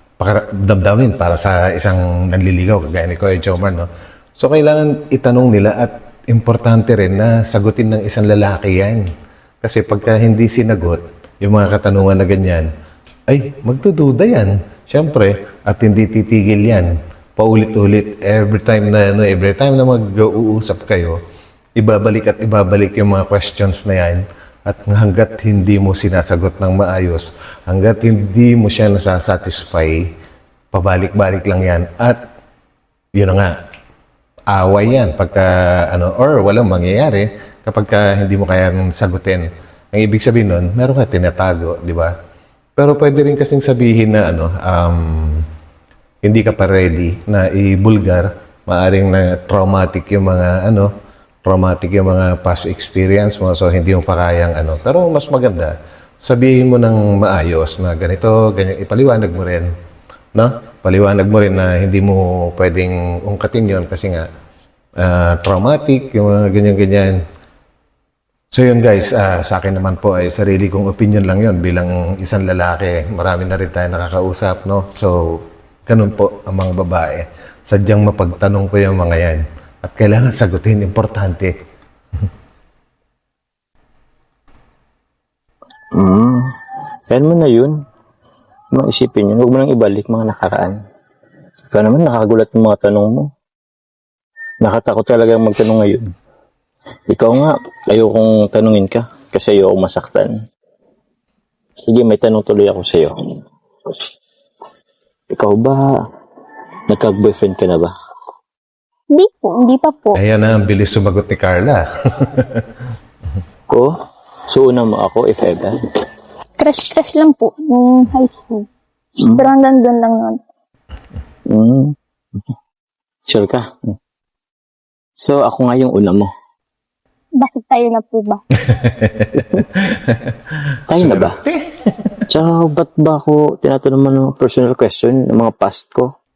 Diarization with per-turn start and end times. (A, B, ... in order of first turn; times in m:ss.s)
0:00.2-0:09.1 A
0:09.6-0:12.7 A
0:13.3-0:21.2 A
0:21.8-0:30.1 A
0:30.7-0:32.2 A
0:33.2-0:33.5 A
0:34.5-0:42.1 A
0:42.8-0:45.4 A
0:46.2-0:50.9 A
0:51.4-0:59.7 A
1:00.3-1:04.3 A
1:05.0-1:07.2 A
1:08.5-1:21.5 A
1:25.9-1:26.5 B
1:27.1-1:27.8 B
1:28.7-1:30.8 B
1:31.7-1:33.3 B
1:34.6-1:36.1 B
1:37.1-1:40.4 B
1:41.9-1:43.3 B
1:45.3-1:45.9 B
1:46.9-1:47.9 B
1:49.1-1:50.2 C
1:50.1-1:52.7 A
1:54.5-1:55.8 B
1:56.6-1:58.7 C
1:59.2-1:59.5 B
1:59.3-2:00.4 C
2:01.5-2:02.0 B
2:03.3-2:03.8 B
2:05.2-2:06.3 B
2:07.4-2:08.4 C
2:08.6-2:12.2 A
2:09.4-2:09.7 B
2:10.9-2:11.4 B
2:12.3-2:16.1 B